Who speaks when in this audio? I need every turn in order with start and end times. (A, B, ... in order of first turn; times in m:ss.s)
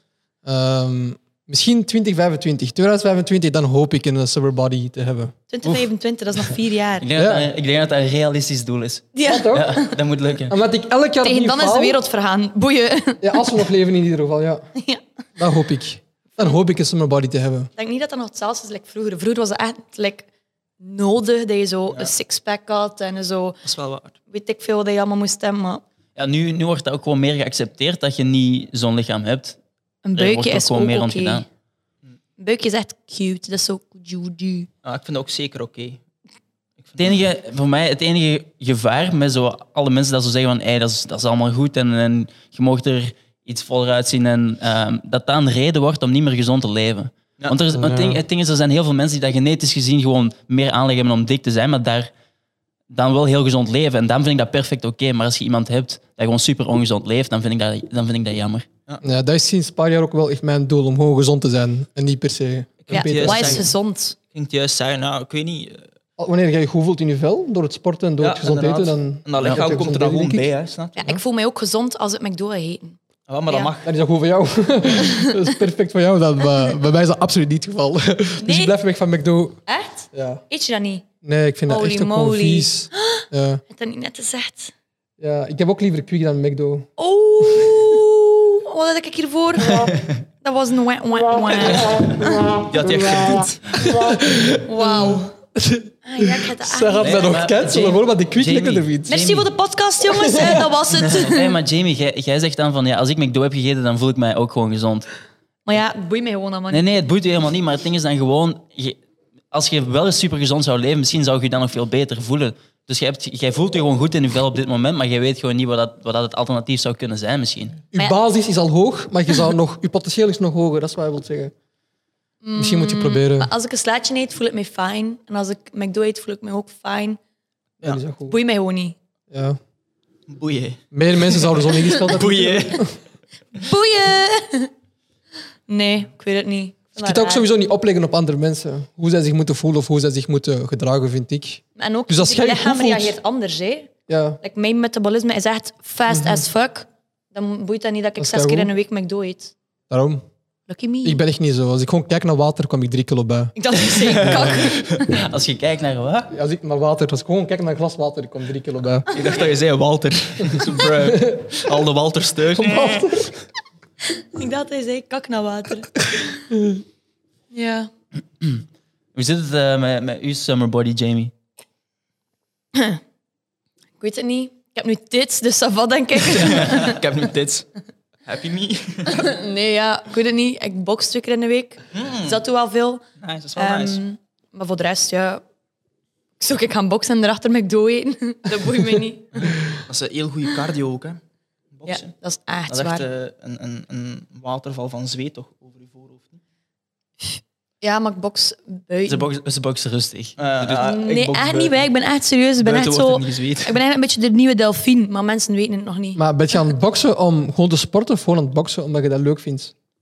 0:00.4-0:05.3 A
0:05.5-0:07.1 B
0:07.0-0:10.5 C
0:07.2-0:07.5 A
0:09.1-0:10.0 B
0:09.2-0:09.8 A
0:10.5-0:12.0 A
0:11.2-0:13.4 B
0:13.2-0:14.6 A
0:14.8-0:15.0 B
0:15.4-0:17.7 A
0:17.8-0:20.3 B
0:20.8-0:23.6 B
0:23.6-0:24.2 D
0:24.3-0:25.8 B
0:26.2-0:29.6 C
0:30.0-0:31.4 B
0:30.1-0:31.4 C
0:32.4-0:34.7 B
0:34.8-0:36.0 D
0:36.8-0:37.2 D
0:37.0-0:52.1 C
0:47.7-0:48.2 A
0:52.9-0:58.6 C
0:59.0-1:03.7 A
1:02.9-1:03.7 D
1:02.9-1:04.2 B
1:04.3-1:05.8 D
1:06.2-1:10.5 A
1:08.2-1:11.0 D
1:11.0-1:13.7 B
1:13.3-1:13.9 D
1:13.8-1:19.6 A
1:18.4-1:18.7 B
1:19.7-1:21.0 B
1:20.1-1:20.4 A
1:21.2-1:23.6 A
1:21.7-1:24.7 B
1:25.2-1:26.9 A
1:27.0-1:32.5 B
1:32.6-1:33.6 D
1:33.8-1:39.4 A
1:34.6-1:35.3 B
1:36.0-1:37.4 B
1:37.0-1:39.4 C
1:39.1-1:41.5 B
1:40.1-1:40.7 A
1:41.1-1:45.1 C
1:45.6-1:46.9 B
1:46.7-1:49.0 C
1:49.5-1:57.8 C
1:57.9-2:01.5 A
2:02.4-2:07.2 B
2:02.6-2:03.5 A
2:07.8-2:08.4 A
2:08.3-2:09.0 B
2:09.3-2:09.6 A
2:10.3-2:10.8 D
2:10.9-2:13.0 A
2:11.7-2:12.9 D
2:13.5-2:14.7 B
2:15.7-2:17.4 B
2:17.0-2:23.1 A
2:21.8-2:23.9 B
2:24.1-2:24.4 A
2:24.4-2:29.5 B
2:26.1-2:26.4 A
2:28.2-2:28.7 A
2:29.9-2:30.2 A
2:30.7-2:31.2 B
2:31.0-2:33.5 A
2:33.6-2:35.2 B
2:34.2-2:34.6 A
2:34.2-2:34.7 D
2:35.1-2:36.3 C
2:36.3-2:39.1 A
2:39.1-2:43.1 D
2:41.0-2:41.5 A
2:42.5-2:43.4 A
2:44.1-2:46.4 B
2:47.5-2:47.9 B
2:49.1-2:51.3 C
2:52.7-2:53.0 B
2:54.0-2:56.8 B
2:56.2-2:57.7 D
2:58.2-2:59.2 D
2:59.1-3:03.0 B
3:01.9-3:02.4 D
3:03.2-3:04.0 D
3:03.6-3:05.4 B
3:06.4-3:09.7 B
3:09.9-3:11.2 D
3:11.7-3:12.1 D
3:11.8-3:13.0 B
3:12.7-3:16.4 D
3:17.2-3:19.3 B
3:19.0-3:20.9 C
3:20.4-3:21.8 D
3:20.8-3:26.2 B
3:22.6-3:23.8 D
3:26.2-3:29.7 A